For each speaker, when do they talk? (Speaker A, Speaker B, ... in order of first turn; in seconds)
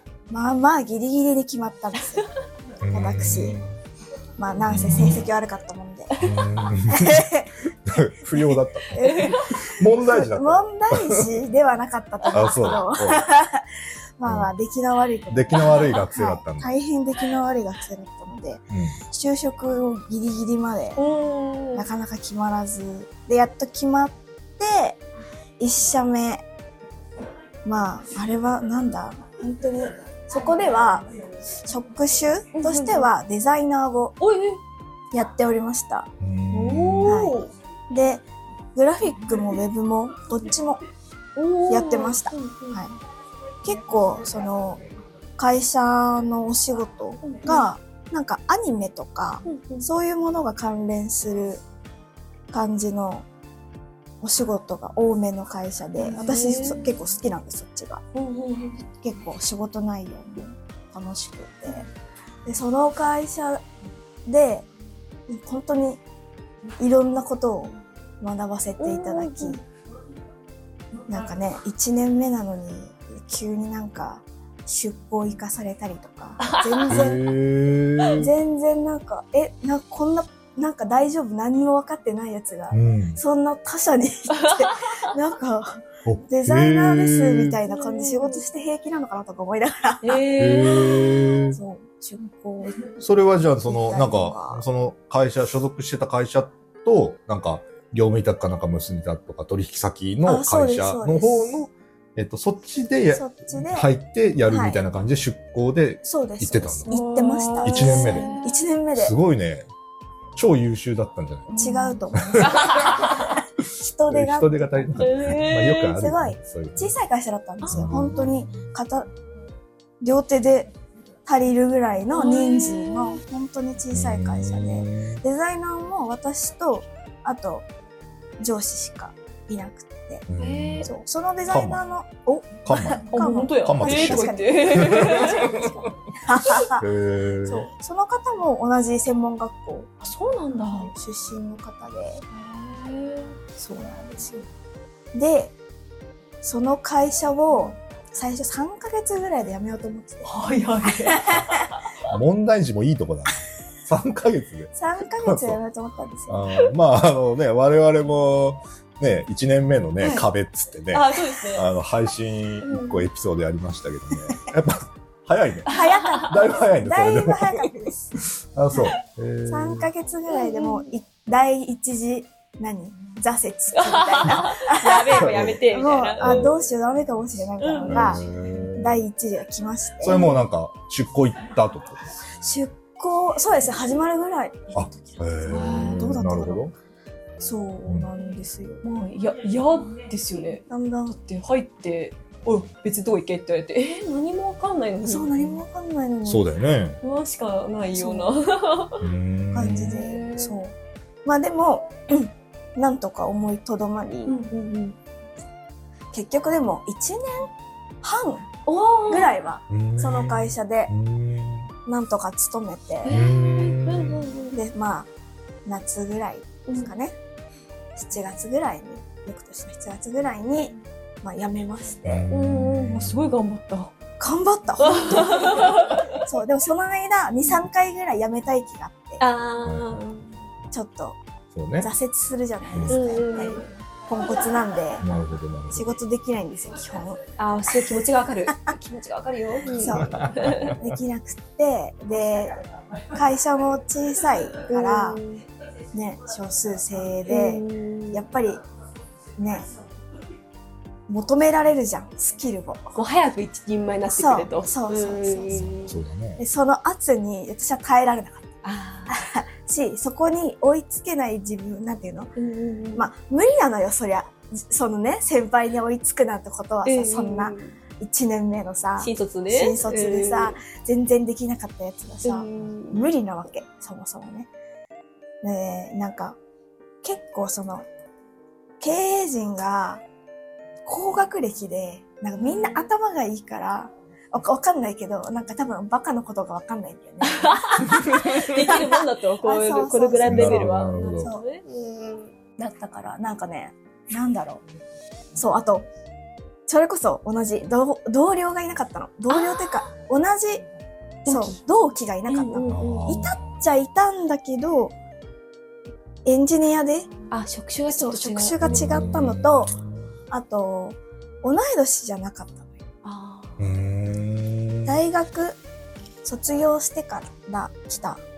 Speaker A: 0.3-2.2, 2.9-3.6, 4.4-6.3, 6.9-7.6, 8.9-13.6, 14.2-21.0, 21.8-25.0, 25.6-26.4, 27.6-31.1, 31.6-34.2, 35.1-36.1, 37.1-37.4, 37.9-38.2, 38.8-40.8, 41.7-42.9, 43.6-44.8, 45.4-51.6, 52.5-53.2, 54.2-58.0, 59.0-61.9, 62.5-63.6, 64.3-64.7, 65.3-66.0, 66.8-69.6, 71.1-77.2, 78.2-90.2, 91.5-92.9, 93.7-94.6, 100.2-101.6, 103.1-103.9, 104.5-104.8, 106.0-109.1, 111.5-113.0, 113.6-115.1, 115.8-119.1, 120.0-120.7, 121.3-127.7, 128.4-130.3, 130.8-136.8, 137.5-139.9, 140.7-142.2, 143.6-144.4, 145.1-145.5, 146.4-150.3, 151.0-151.5, 154.8-156.4, 165.7-168.2, 169.5-178.2, 178.8-180.3, 182.4-186.7, 187.4-188.8, 190.7-191.2, 195.1-196.5, 197.9-198.3, 199.5-200.7, 201.2-204.4, 206.1-207.5, 208.0-208.5, 209.1-210.9, 211.9-213.2, 214.5-215.1, 215.7-217.2, 218.0-222.3, 224.2-229.2, 230.7-231.2, 231.8-235.1, 235.7-237.2, 239.7-242.6, 243.1-245.2, 245.9-248.6, 249.4-249.7, 251.1-252.9, 254.1-255.8, 256.4-258.5, 259.1-262.3, 263.0-274.5, 275.4-276.4, 277.0-277.9, 278.8-280.0, 280.9-291.4, 292.6-294.6, 295.4-295.9, 296.7-300.6, 301.3-304.9, 306.2-307.1, 307.9-309.7, 310.3-312.6, 314.9-315.6, 316.2-318.2
Speaker B: 2.8-3.8, 4.7-5.3, 6.2-7.3, 7.9-11.3, 12.3-13.2, 14.3-14.5, 15.3-16.7, 18.7-19.0, 36.2-37.2, 76.9-78.3, 82.7-83.2, 86.0-87.6, 90.4-91.6, 93.0-106.9, 107.6-108.3, 109.0-109.7, 110.3-111.5, 112.2-113.2, 114.1-117.0, 117.7-118.6, 123.9-125.2, 130.3-130.9, 131.5-131.8, 132.7-133.1, 133.6-135.7, 136.7-137.7, 152.1-155.6, 156.3-167.7, 168.2-169.9, 175.2-175.6, 176.2-176.5, 177.9-179.0, 180.0-182.1, 184.8-186.7, 196.2-197.0, 199.0-200.0, 209.7-211.7, 213.1-214.3, 222.1-223.3, 229.6-230.0, 231.5-231.9, 232.7-233.0, 235.0-236.0, 239.9-240.8, 255.5-256.4, 290.3-291.3, 302.7-303.6, 308.6-310.1, 313.6-315.0
Speaker C: 6.2-6.4, 9.0-9.6, 12.2-12.8, 15.6-16.0, 21.0-21.9, 32.5-33.1, 34.2-34.6, 36.5-37.5, 41.4-42.8, 47.2-47.6, 49.5-49.9, 56.0-57.0, 58.1-58.8, 68.8-69.6, 76.4-77.1, 84.3-85.1, 87.7-88.4, 90.0-91.2, 106.9-108.6, 111.5-113.4, 115.0-116.0, 117.6-118.1, 122.1-123.2, 130.4-130.9, 133.1-135.7, 140.0-140.9, 142.3-143.4, 150.2-151.8, 160.9-161.7, 162.7-163.0, 165.7-166.3, 170.3-170.9, 173.8-176.7, 177.6-178.2, 185.5-186.1, 188.8-190.7, 191.2-195.6, 197.0-199.1, 199.7-200.6, 204.3-205.0, 208.7-209.3, 213.1-214.6, 222.3-223.9, 224.8-226.2, 229.2-230.3, 232.9-233.7, 237.4-240.8, 244.7-245.4, 247.3-248.2, 252.9-256.0, 258.6-259.2, 262.4-263.1, 266.9-267.8, 269.0-270.6, 272.2-273.1, 282.4-282.9, 287.2-292.4, 299.3-299.9, 301.3-301.6, 302.3-303.3, 307.3-309.1, 313.0-313.7